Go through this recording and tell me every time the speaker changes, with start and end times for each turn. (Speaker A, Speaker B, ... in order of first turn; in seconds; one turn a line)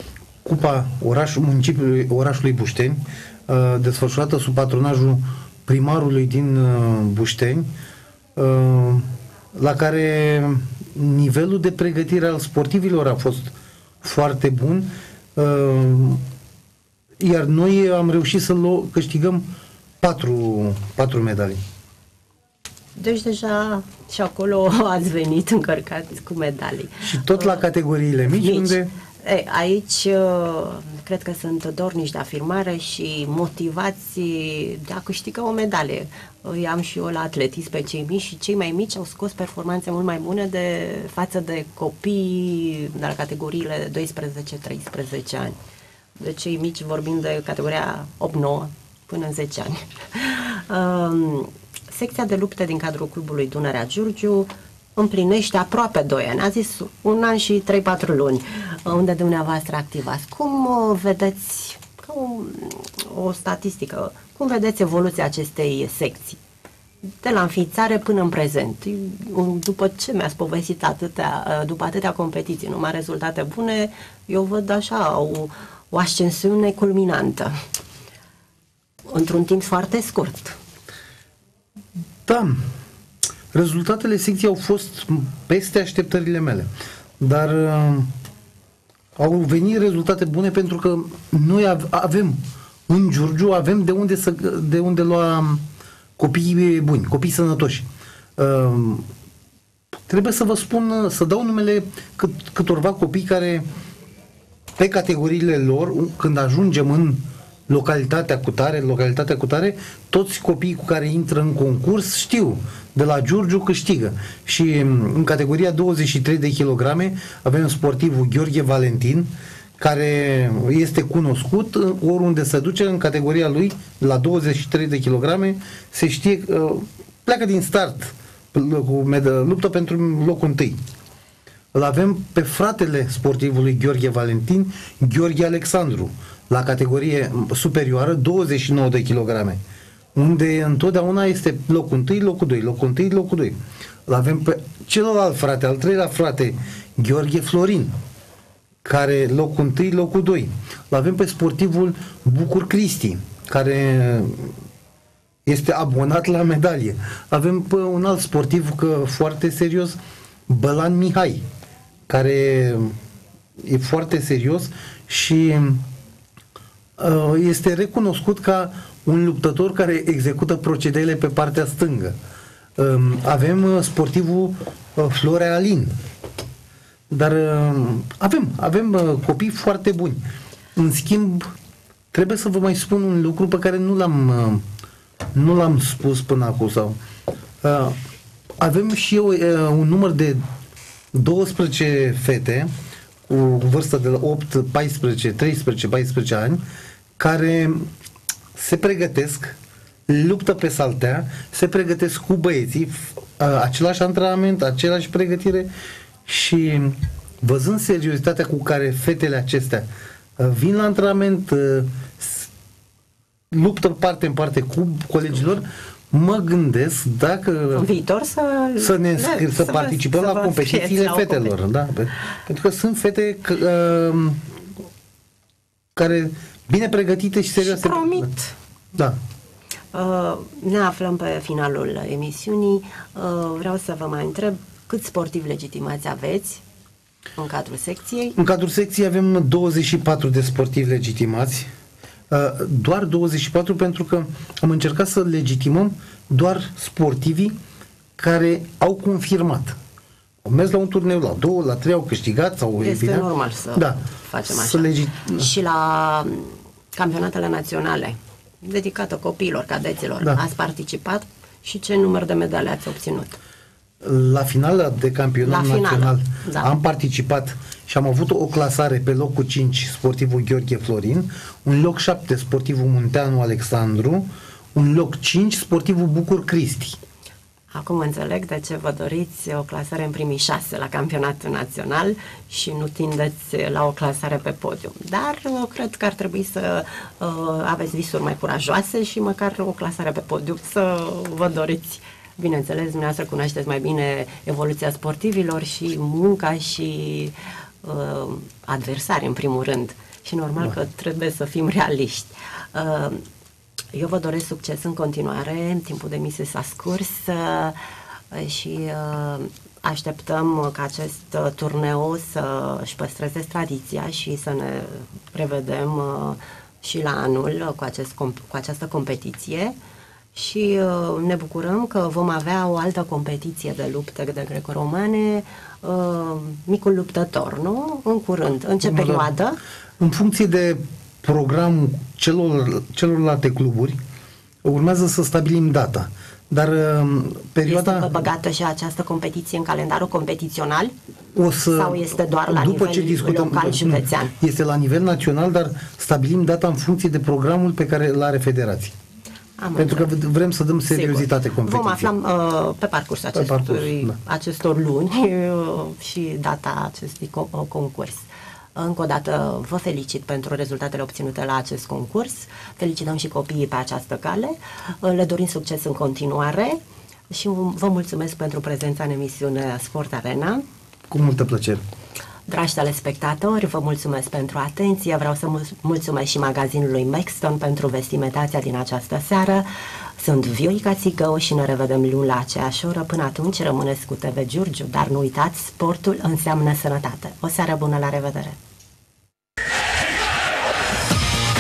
Speaker A: 0.4-7.7
Speaker A: 8.4-16.2
Speaker A: 17.2-19.5
Speaker A: 20.0-21.6
Speaker B: 22.9-27.6
Speaker A: 27.0-28.9
Speaker B: 28.3-45.6
Speaker B: 46.2-66.4
Speaker B: 67.2-77.5
Speaker B: 79.1-80.6
Speaker A: 82.3-82.6
Speaker A: 83.5-88.1
Speaker A: 89.2-95.6
Speaker A: 96.2-97.9
Speaker A: 98.4-99.1
Speaker A: 100.1-103.7
Speaker A: 104.8-130.8
Speaker A: 131.7-139.6
Speaker A: 140.1-147.9
Speaker A: 148.8-154.5
Speaker A: 155.4-161.4
Speaker A: 162.1-162.9
Speaker A: 163.6-165.8
Speaker A: 167.0-172.2
Speaker A: 172.8-175.9
Speaker A: 177.1-180.2
Speaker A: 180.7-181.5
Speaker A: 182.1-184.6
Speaker A: 185.3-187.0
Speaker A: 187.6-188.0
Speaker A: 188.6-190.4
Speaker A: 191.1-192.7
Speaker A: 193.3-196.6
Speaker A: 197.2-197.9
Speaker A: 198.6-199.6
Speaker A: 200.1-205.7
Speaker A: 206.3-212.5
Speaker A: 213.5-217.9
Speaker B: 217.7-221.6
Speaker A: 218.8-224.5
Speaker A: 225.9-228.3
Speaker B: 227.6-228.5
Speaker B: 229.9-236.6
Speaker B: 237.4-238.4
Speaker A: 238.4-241.7
Speaker A: 242.3-247.6
Speaker A: 248.2-249.8
Speaker A: 250.4-255.5
Speaker B: 252.8-263.4
Speaker A: 264.0-277.0
Speaker B: 265.4-266.7
Speaker B: 277.7-303.2
Speaker B: 303.9-307.8
Speaker B: 308.3-319.7
Speaker B: 320.3-329.6
Speaker A: 328.8-329.3
Speaker A: 330.0-334.0
Speaker A: 334.6-338.2
Speaker B: 337.6-340.9
Speaker A: 341.3-348.9
Speaker B: 341.7-344.3
Speaker B: 349.6-350.2
Speaker A: 349.7-352.1
Speaker B: 350.9-370.6
Speaker A: 353.3-354.2
Speaker A: 371.1-371.8
Speaker B: 372.5-388.6